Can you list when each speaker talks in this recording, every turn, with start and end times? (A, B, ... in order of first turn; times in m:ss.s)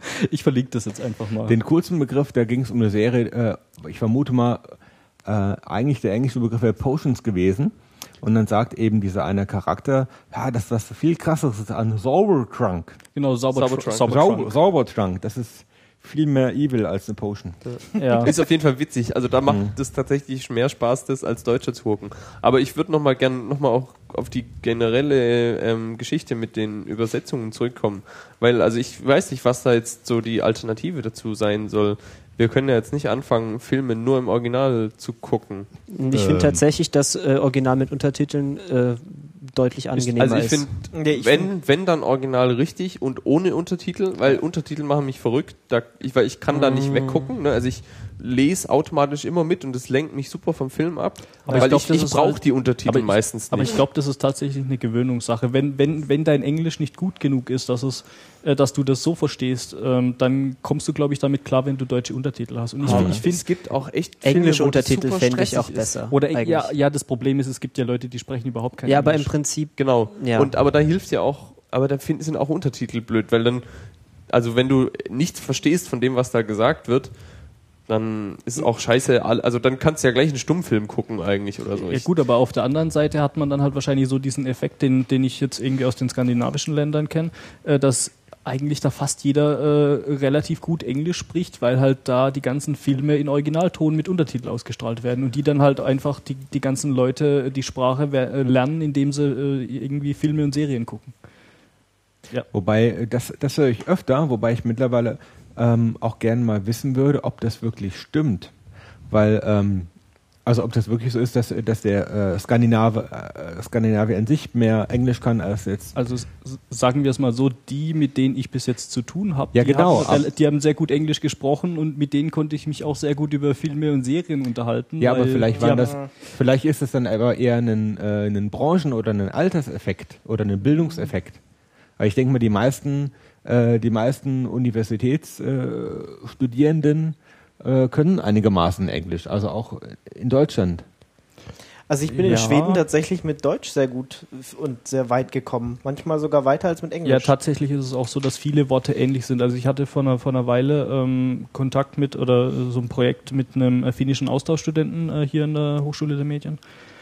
0:00.2-0:01.6 A
0:01.4-0:13.0 B
0:13.1-0:14.6 A
0:13.5-0:14.0 C
0:14.0-0:17.7 B
0:17.6-0:35.8 C
0:18.0-0:18.3 A
0:19.5-0:19.7 B
0:35.9-0:40.7 D
0:36.1-0:36.6 B
0:40.2-0:53.9 C
0:40.9-0:41.5 E
0:46.5-0:47.3 D
0:51.4-1:03.5 A
1:02.8-1:06.0 C
1:02.9-1:03.2 B
1:04.2-1:06.7 D
1:06.1-1:09.4 A
1:08.8-1:10.5 D
1:09.7-1:22.1 C
1:21.9-1:41.2 A
1:42.5-1:48.5 B
1:49.1-1:49.9 B
1:50.4-1:55.9 B
1:55.9-2:06.0 A
1:59.5-2:00.3 B
2:05.0-2:11.4 B
2:05.5-2:06.1 E
2:12.0-2:20.8 B
2:21.9-2:27.3 E
2:22.1-2:22.8 A
2:27.0-2:36.8 A